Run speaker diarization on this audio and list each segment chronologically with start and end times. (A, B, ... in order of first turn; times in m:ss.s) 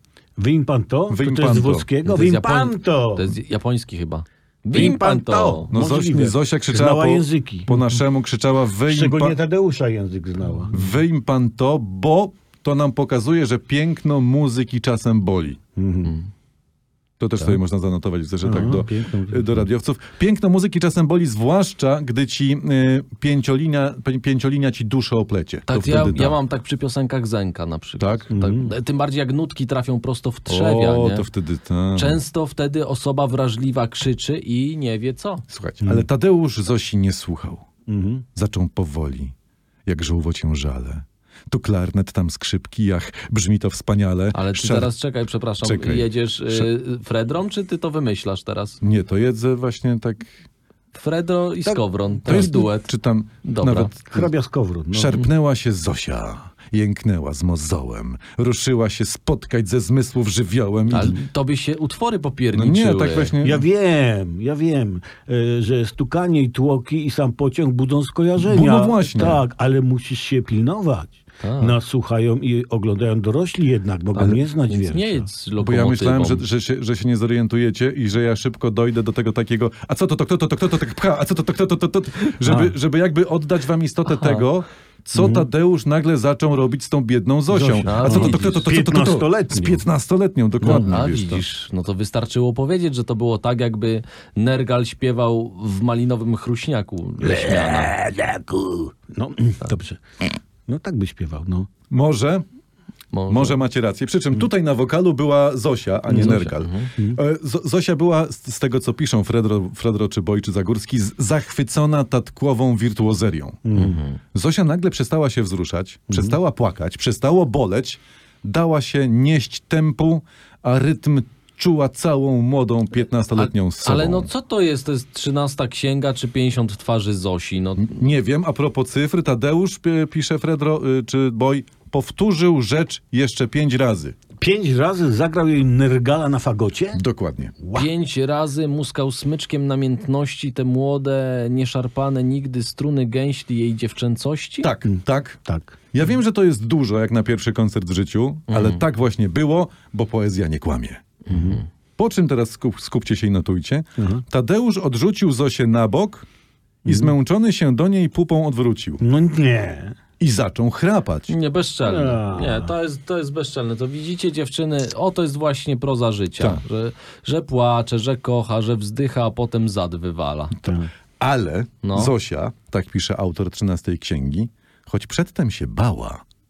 0:00.4-0:03.3 A
0:01.1-0:01.8 B
0:02.0-0:05.7 C
0:04.7-0:07.8 A
0:05.7-0:09.4 B
0:08.9-0:10.8 A
0:10.7-0:15.6 B
0:15.8-0:16.1 A
0:17.2-0:26.4 B
0:18.4-0:19.7 A
0:25.7-0:31.3 C
0:28.0-0:28.3 B
0:28.3-0:28.7 A
0:30.5-0:32.2 B
0:31.9-0:35.4 C
0:35.5-0:37.6 B
0:37.9-0:38.2 A
0:38.3-0:39.3 B
0:39.8-0:44.9 B
0:44.3-0:48.8 C
0:45.6-0:46.7 B
0:48.8-0:50.3 B
0:50.9-0:52.9 C
0:52.2-0:54.3 B
0:53.4-0:53.9 C
0:54.1-0:55.2 A
0:54.9-1:01.2 B
1:00.9-1:03.4 C
1:02.5-1:03.6 B
1:03.4-1:15.3 A
1:08.4-1:09.4 B
1:11.4-1:11.8 C
1:14.1-1:16.4 C
1:15.6-1:31.4 B
1:24.0-1:24.4 C
1:25.1-1:25.5 A
1:27.5-1:29.8 A
1:27.8-1:28.6 C
1:30.6-1:37.9 C
1:30.6-1:30.9 A
1:37.2-1:40.0 A
1:40.6-1:41.7 A
1:41.9-1:42.4 B
1:43.1-1:43.6 C
1:43.3-1:53.7 B
1:46.1-1:46.4 A
1:46.1-1:46.9 C
1:53.6-1:54.0 A
1:53.7-1:54.2 C
1:54.3-2:04.3 B
1:56.1-1:56.4 A
2:03.4-2:08.0 C
2:07.8-2:14.2 B
2:14.4-2:17.0 A
2:16.9-2:17.6 B
2:17.6-2:17.9 A
2:17.7-2:24.7 C
2:24.6-2:31.0 B
2:24.8-2:25.8 A
2:28.5-2:28.8 C
2:31.3-2:31.6 C
2:31.3-2:31.6 A
2:32.0-2:36.3 B
2:34.0-2:34.2 A
2:36.8-2:37.1 A
2:36.8-2:39.0 B
2:39.0-2:40.0 A
2:40.2-2:41.3 B
2:41.3-2:50.5 C
2:41.8-2:42.7 A
2:50.6-2:50.9 A
2:51.2-2:56.2 B
2:51.8-2:52.1 C